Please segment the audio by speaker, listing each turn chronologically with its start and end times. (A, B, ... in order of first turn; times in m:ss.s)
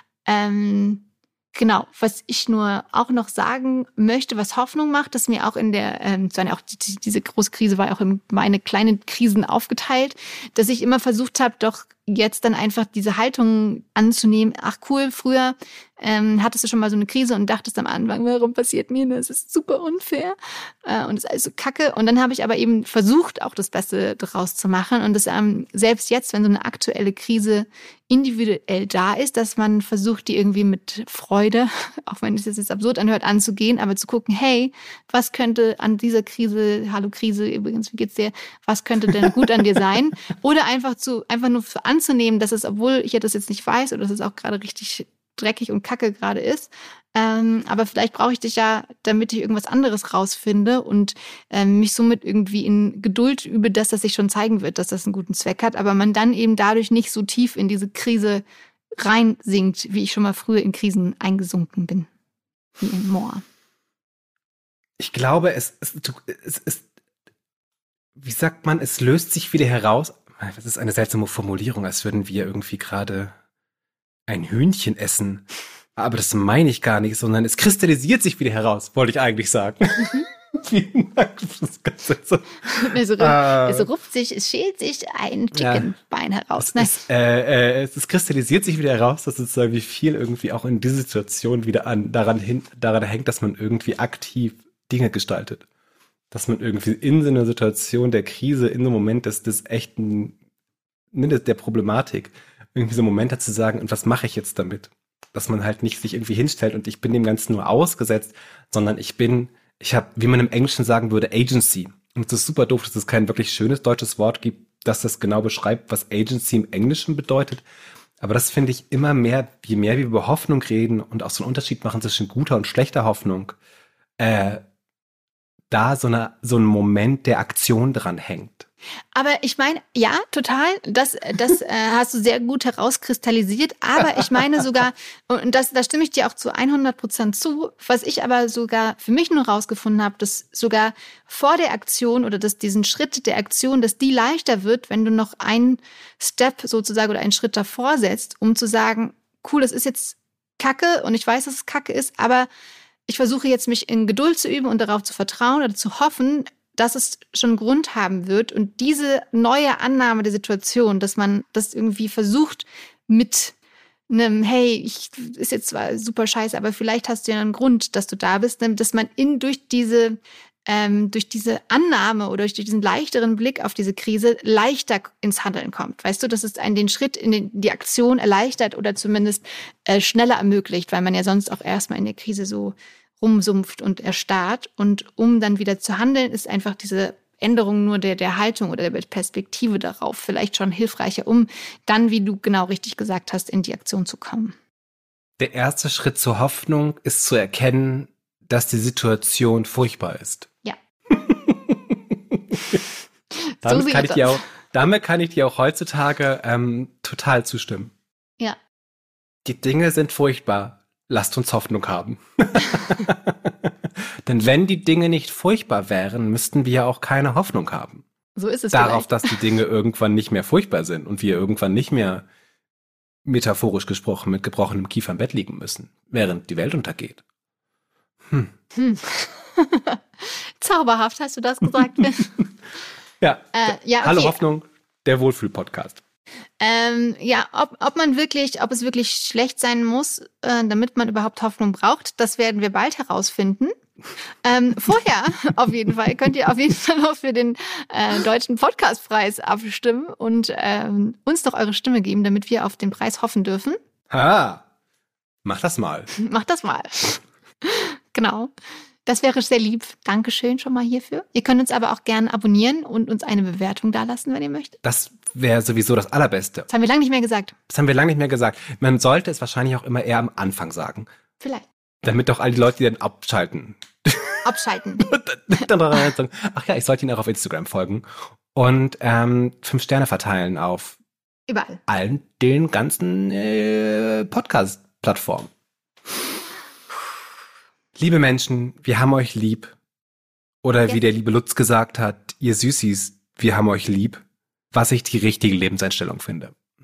0:00.2-0:58.4 A
0:59.0-1:02.1 A
1:02.8-1:03.4 A
1:05.0-1:06.9 B
1:08.2-1:13.3 B
1:14.3-1:15.4 B
1:16.0-1:23.9 B
1:22.7-1:26.9 A
1:25.5-1:25.9 B
1:26.6-1:35.6 B
1:36.3-1:40.4 B
1:41.1-1:57.6 B
1:58.2-2:03.6 B
2:04.2-2:04.6 B
2:05.7-2:08.7 B
2:09.1-2:32.5 A
2:33.1-2:43.5 A
2:44.1-2:50.2 A
2:50.7-3:14.5 A
3:15.4-3:20.5 B
3:21.1-3:22.8 B
3:23.6-3:24.4 A
3:23.6-3:27.9 B
3:29.4-3:38.0 B
3:38.4-3:39.4 A
3:38.7-3:42.2 B
3:43.2-3:47.2 B
3:48.7-3:52.4 A
3:53.2-3:56.0 B
3:53.5-3:54.4 A
3:56.6-4:03.7 A
4:04.4-4:13.8 A
4:14.1-4:14.6 B
4:15.4-4:16.1 B
4:16.1-4:18.5 A
4:19.0-4:24.8 A
4:24.8-4:26.7 B
4:26.7-4:27.5 A
4:27.7-4:31.1 B
4:31.4-4:31.7 A
4:32.0-4:41.0 B
4:34.4-4:35.0 A
4:41.5-4:41.8 A
4:41.9-4:45.5 B
4:48.0-4:49.7 B
4:50.6-4:56.5 B